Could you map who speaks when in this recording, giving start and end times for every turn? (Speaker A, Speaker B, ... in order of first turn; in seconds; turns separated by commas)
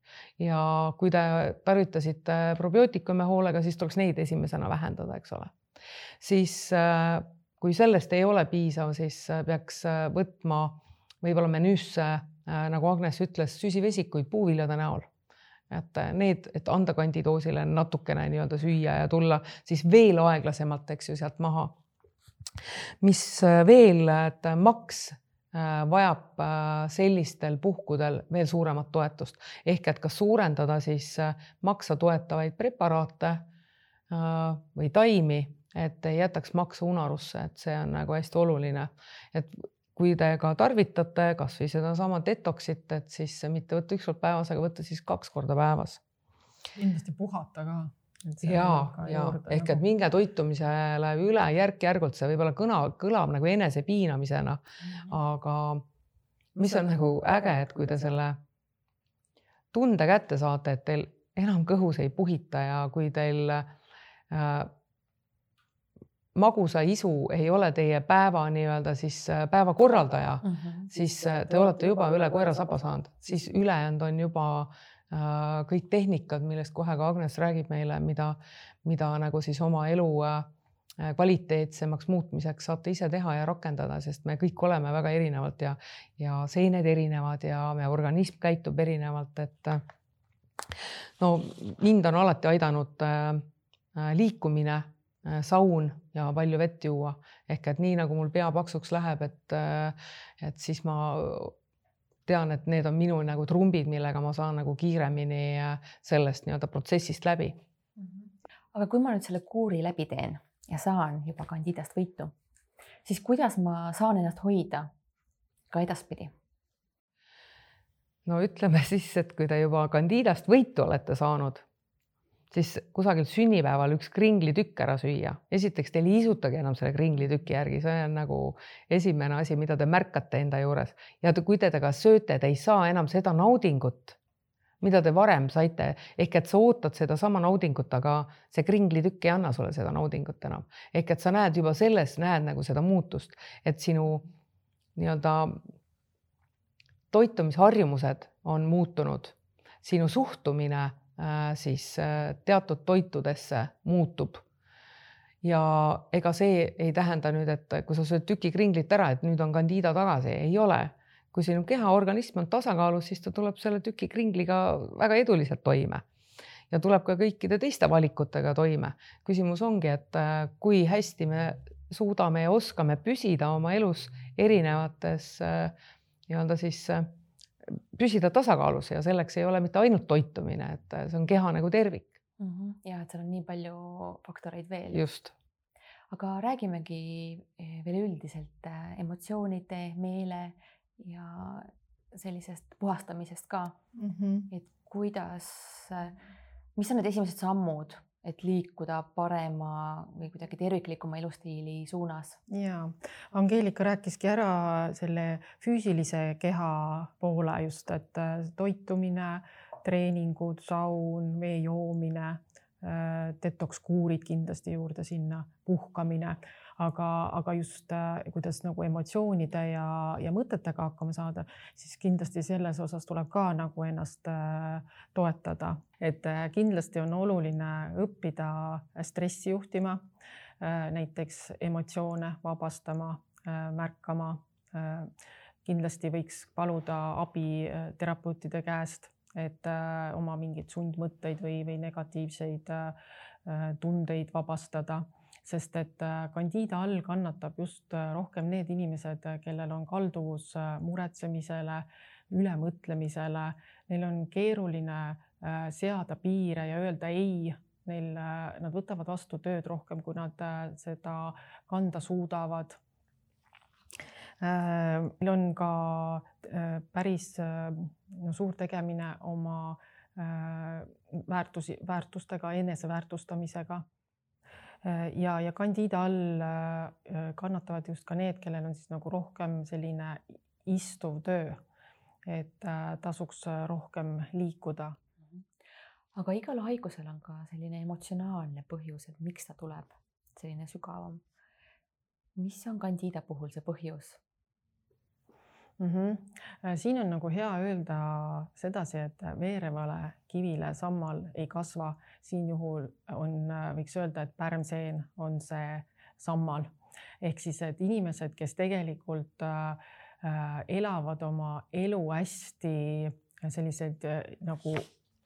Speaker A: 0.4-5.5, Speaker A: 6.2-15.1, Speaker A: 15.7-21.8, Speaker A: 23.0-33.5, Speaker A: 34.1-46.0, Speaker B: 46.8-49.8, Speaker A: 48.4-55.9, Speaker A: 56.5-58.4, Speaker A: 59.7-63.7, Speaker A: 64.3-64.7, Speaker A: 66.3-80.5, Speaker C: 70.4-70.8, Speaker A: 81.0-89.8, Speaker A: 91.2-101.5, Speaker A: 102.3-107.6, Speaker C: 108.7-112.3, Speaker C: 113.0-114.9, Speaker C: 115.7-116.3, Speaker A: 118.2-121.6, Speaker A: 122.5-134.2, Speaker A: 134.8-144.3, Speaker A: 144.9-145.6, Speaker A: 147.1-154.4, Speaker A: 155.4-166.0, Speaker A: 166.7-175.7, Speaker A: 176.3-177.1, Speaker A: 177.7-182.2, Speaker C: 182.4-185.1, Speaker A: 184.9-185.3, Speaker C: 186.1-193.8, Speaker B: 194.0-194.5, Speaker C: 194.5-196.2, Speaker C: 196.8-202.4, Speaker B: 202.5-230.0, Speaker B: 230.6-235.1, Speaker B: 235.6-262.8, Speaker B: 264.4-273.8, Speaker B: 274.8-281.6, Speaker B: 282.2-285.0, Speaker C: 286.1-291.2, Speaker C: 292.4-294.2, Speaker B: 295.8-314.9